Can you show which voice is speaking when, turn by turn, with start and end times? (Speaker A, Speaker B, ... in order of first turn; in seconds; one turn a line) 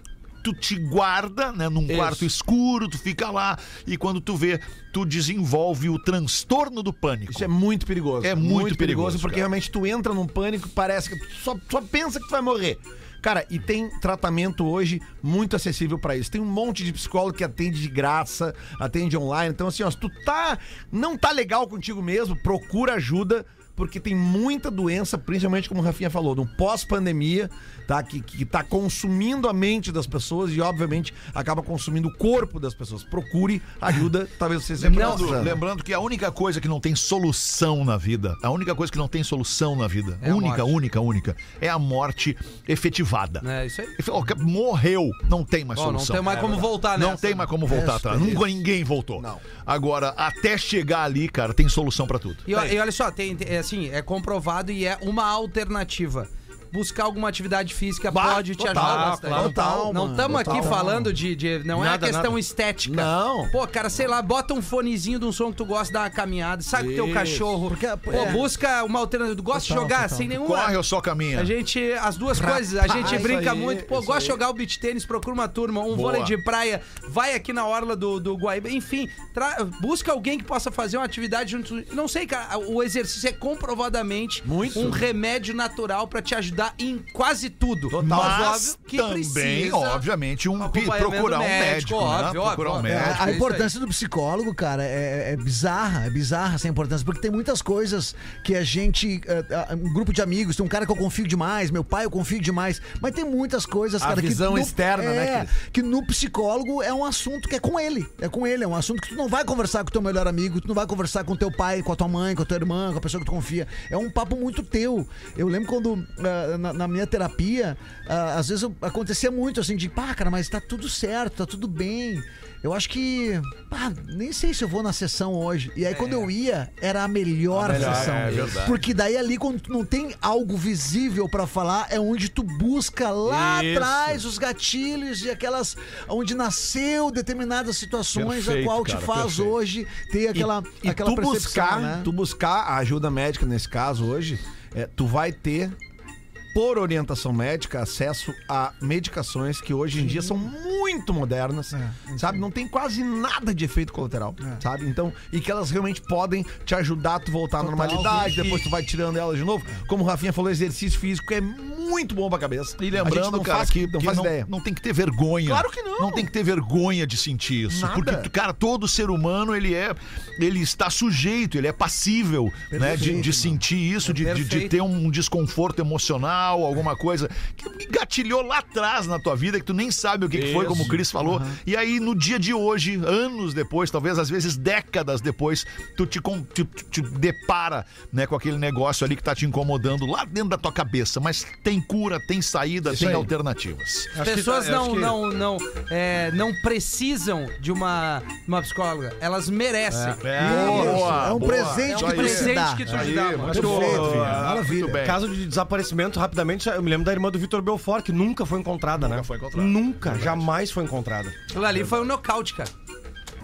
Speaker A: 0.4-7.5
Speaker B: 1.9-2.3
Speaker B: 7.3-35.6
Speaker A: 8.2-9.5
Speaker C: 34.8-35.4
Speaker A: 34.8-43.5
Speaker C: 40.2-40.8
Speaker C: 43.4-44.0
Speaker A: 44.0-52.5
Speaker C: 45.8-47.5
Speaker D: 47.7-48.5
Speaker B: 49.2-49.4
Speaker C: 52.5-70.8
Speaker A: 58.1-59.1
Speaker B: 58.6-61.0
Speaker E: 58.7-59.6
Speaker D: 59.4-61.1
Speaker E: 61.7-62.4
Speaker B: 62.8-63.5
Speaker B: 66.7-67.5
Speaker D: 67.7-68.4
Speaker B: 68.1-68.4
Speaker D: 69.5-70.3
Speaker A: 70.4-71.5
Speaker C: 71.3-90.0
Speaker B: 72.3-74.4
Speaker D: 73.0-73.4
Speaker A: 75.9-76.4
Speaker B: 84.5-85.1
Speaker B: 87.9-88.5
Speaker A: 88.0-93.4
Speaker C: 90.6-93.7
Speaker D: 92.9-142.1
Speaker B: 104.0-105.5
Speaker C: 125.9-126.3
Speaker E: 127.6-128.7
Speaker B: 127.6-128.4
Speaker A: 127.7-128.8
Speaker E: 133.2-134.1
Speaker A: 138.1-139.6
Speaker B: 140.3-145.8
Speaker B: 146.5-164.5
Speaker D: 150.1-150.3
Speaker D: 151.8-152.4
Speaker D: 157.6-158.6
Speaker A: 162.8-194.1
Speaker B: 165.4-166.3
Speaker B: 167.7-168.3
Speaker D: 172.7-173.6
Speaker C: 174.1-174.8
Speaker E: 180.5-181.0
Speaker D: 181.2-181.6
Speaker B: 192.9-193.3
Speaker E: 192.9-193.3
Speaker E: 194.2-195.2
Speaker C: 194.2-201.0
Speaker E: 199.9-201.4
Speaker A: 200.2-205.2
Speaker D: 200.4-205.0
Speaker C: 201.9-203.9
Speaker E: 202.9-211.4
Speaker A: 209.0-210.5
Speaker C: 211.5-212.7